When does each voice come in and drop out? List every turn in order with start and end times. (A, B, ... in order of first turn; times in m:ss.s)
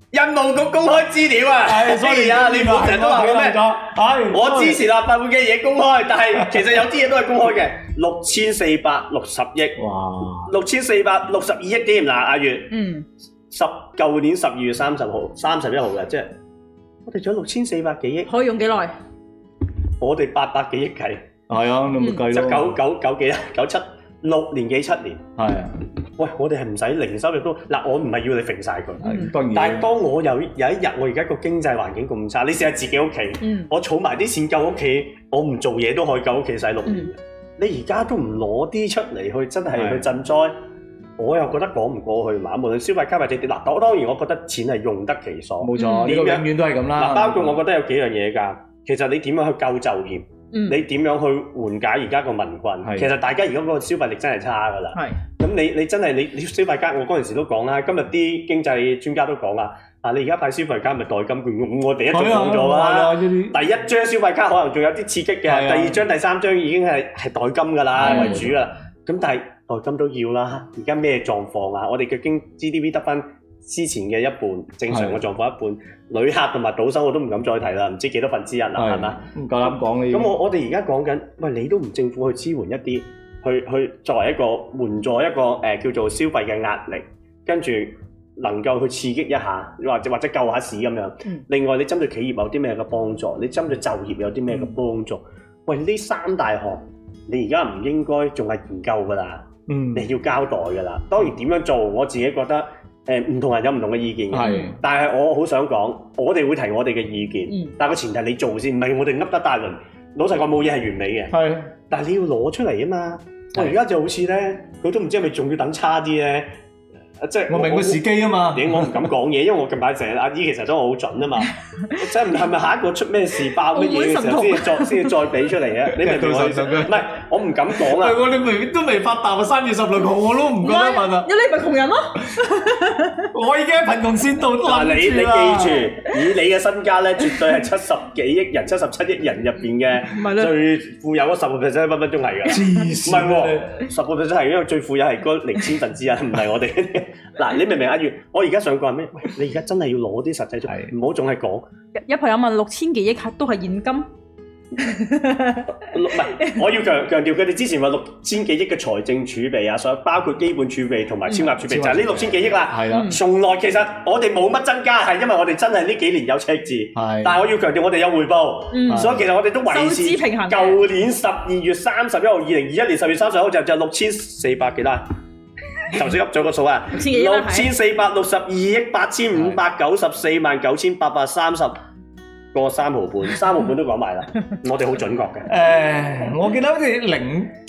0:00.1-0:03.8 A
0:01.7-0:04.8 B
0:04.3-0:09.8 A
0:09.8-0:10.5 B
0:10.4-0:12.7 A
0:12.7-0:13.0 C
0:13.5-0:16.3 A
0:17.0-0:18.3 A
0:18.3-0:18.9 C
0:20.0-0:21.3 A
0:21.5-0:22.8 B
0:22.0-0:22.2 C
0:22.3-0:25.2 A
0:25.4-0:25.8 B
0:26.2-0:40.5 A
0:29.0-0:29.3 C
0:29.0-0:29.9 B
0:33.4-0:33.7 C
0:39.7-0:40.1 B
0:41.2-1:51.3 A
0:45.6-0:47.6 B
0:45.8-0:46.2 C
0:50.5-0:50.8 C
0:52.8-0:53.1 B
0:54.9-0:55.2 C
1:02.1-1:03.6 B
1:05.5-1:06.0 B
1:08.0-1:08.6 B
1:08.0-1:08.4 C
1:14.9-1:15.2 B
1:18.8-1:20.4 B
1:39.7-1:40.1 B
1:44.3-1:44.8 B
1:44.4-1:44.7 C
1:47.5-1:47.7 C
1:51.3-1:51.7 B
1:51.9-1:56.5 A
1:57.2-2:08.2 A
1:57.5-1:59.1 B
2:03.7-2:05.1 C
2:05.9-2:07.1 B
2:07.8-2:11.3 B
2:10.6-2:13.3 C
2:13.3-2:15.9 B
2:14.6-2:31.7 A
2:20.0-2:20.5 C
2:22.5-2:23.8 B
2:30.7-2:30.9 B
2:32.0-2:34.1 C
2:34.8-2:36.6 C
2:35.8-2:55.0 A
2:41.6-2:43.1 B
2:42.9-2:43.2 C
2:47.0-2:47.4 B
2:48.7-2:49.1 C
2:48.9-2:49.2 B
2:49.7-2:50.8 C
2:55.9-3:01.8 A
2:56.9-2:57.7 C
2:59.3-2:59.6 B
3:02.5-3:05.5 A
3:05.5-3:07.5 B